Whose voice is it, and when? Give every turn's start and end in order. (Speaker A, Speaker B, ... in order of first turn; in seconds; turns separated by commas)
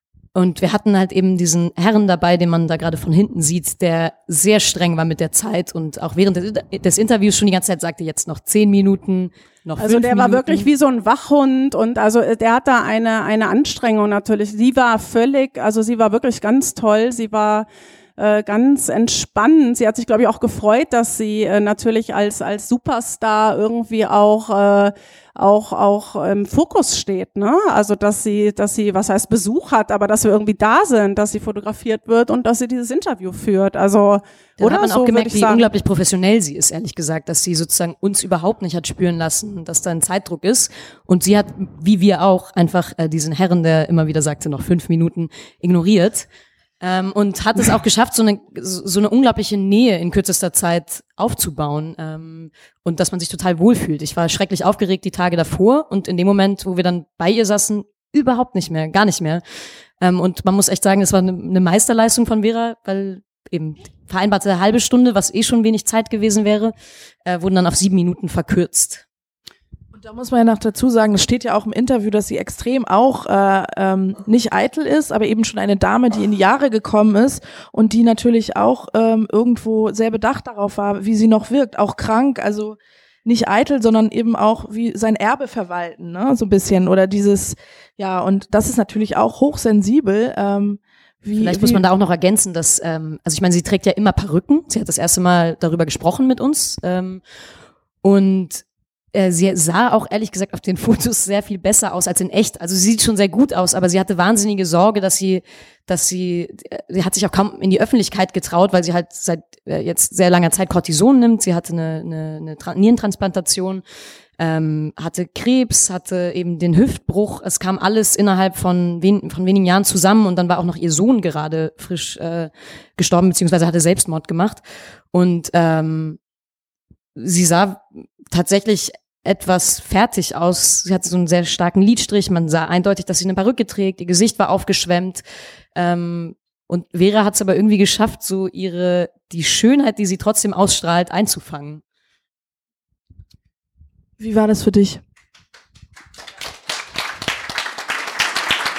Speaker A: 0.3-10.7, Speaker B: 9.8-35.7, Speaker A: 34.6-46.3, Speaker A: 46.8-59.4, Speaker A: 60.0-66.7, Speaker A: 67.3-69.0, Speaker C: 70.0-91.8, Speaker A: 91.4-97.2, Speaker A: 98.0-113.8, Speaker A: 114.4-126.2, Speaker A: 127.2-135.2, Speaker A: 135.8-141.8, Speaker C: 144.2-145.0